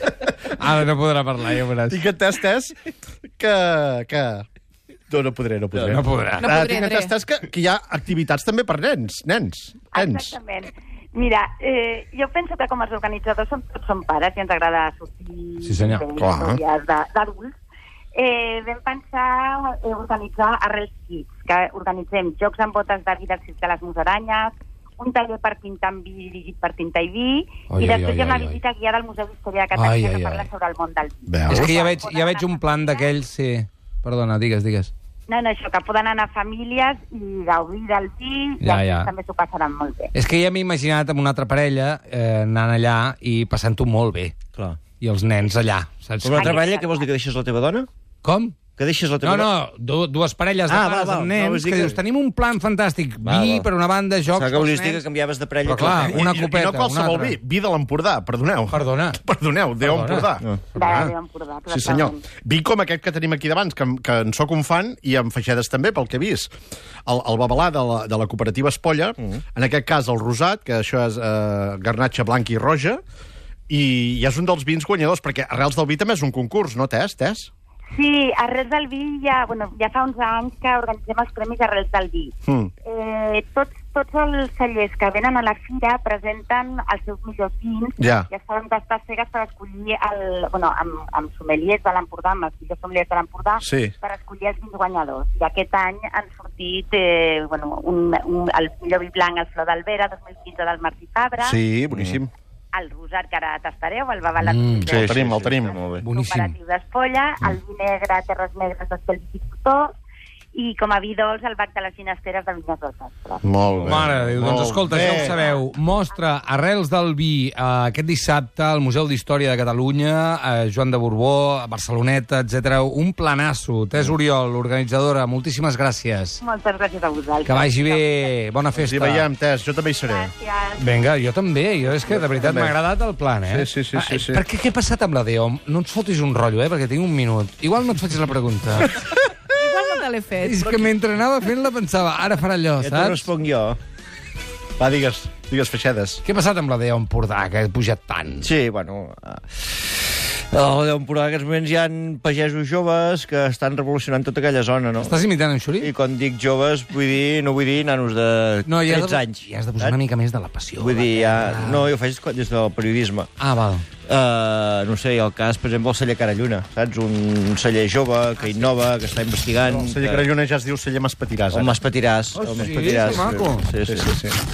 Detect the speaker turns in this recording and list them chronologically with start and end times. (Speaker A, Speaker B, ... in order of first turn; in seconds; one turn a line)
Speaker A: 0.5-2.0
Speaker B: 1.9-2.8
Speaker B: 3.4-4.5
Speaker B: 5.1-10.3
Speaker C: 5.7-6.0
Speaker A: 5.9-6.5
Speaker D: 6.4-7.1
Speaker E: 9.9-17.5
Speaker A: 15.6-16.0
Speaker B: 16.2-16.6
Speaker E: 18.1-33.1
Speaker A: 27.7-28.6
Speaker A: 29.7-30.5
Speaker B: 31.3-31.9
Speaker A: 31.5-34.9
Speaker E: 35.3-40.1
Speaker A: 38.6-39.1
Speaker A: 40.1-44.3
Speaker A: 45.0-46.6
Speaker C: 46.2-47.9
Speaker E: 46.3-47.1
Speaker A: 48.2-48.5
Speaker C: 48.8-49.5
Speaker A: 49.2-55.0
Speaker C: 50.7-52.0
Speaker C: 53.2-53.7
Speaker C: 54.3-56.2
Speaker A: 55.6-57.4
Speaker B: 55.8-61.1
Speaker A: 58.7-59.2
Speaker A: 59.8-60.3
Speaker E: 60.7-62.2
Speaker B: 61.7-66.5
Speaker B: 67.0-73.0
Speaker B: 73.7-77.5
Speaker E: 77.9-82.3
Speaker E: 82.8-101.6
Speaker B: 88.0-88.3
Speaker B: 93.6-93.9
Speaker B: 101.4-102.3
Speaker C: 101.9-102.2
Speaker E: 102.7-109.9
Speaker A: 104.4-104.9
Speaker C: 104.8-106.0
Speaker B: 104.9-105.8
Speaker A: 106.0-106.5
Speaker E: 110.5-113.4
Speaker B: 113.4-115.3
Speaker A: 113.8-126.4
Speaker C: 114.9-115.4
Speaker E: 115.2-115.6
Speaker E: 126.4-128.3
Speaker A: 127.4-129.3
Speaker B: 128.7-130.3
Speaker E: 130.1-130.8
Speaker A: 130.8-139.0
Speaker B: 132.1-132.7
Speaker B: 133.4-134.4
Speaker B: 138.9-139.8
Speaker D: 139.5-140.7
Speaker A: 140.4-143.3
Speaker C: 142.8-143.8
Speaker B: 144.8-146.2
Speaker A: 146.2-148.5
Speaker C: 148.4-155.2
Speaker A: 155.0-155.9
Speaker C: 155.8-160.0
Speaker A: 158.7-161.9
Speaker C: 160.8-163.3
Speaker A: 163.4-163.8
Speaker C: 164.1-170.3
Speaker B: 169.7-171.8
Speaker C: 171.5-174.1
Speaker A: 172.3-173.7
Speaker B: 173.9-174.4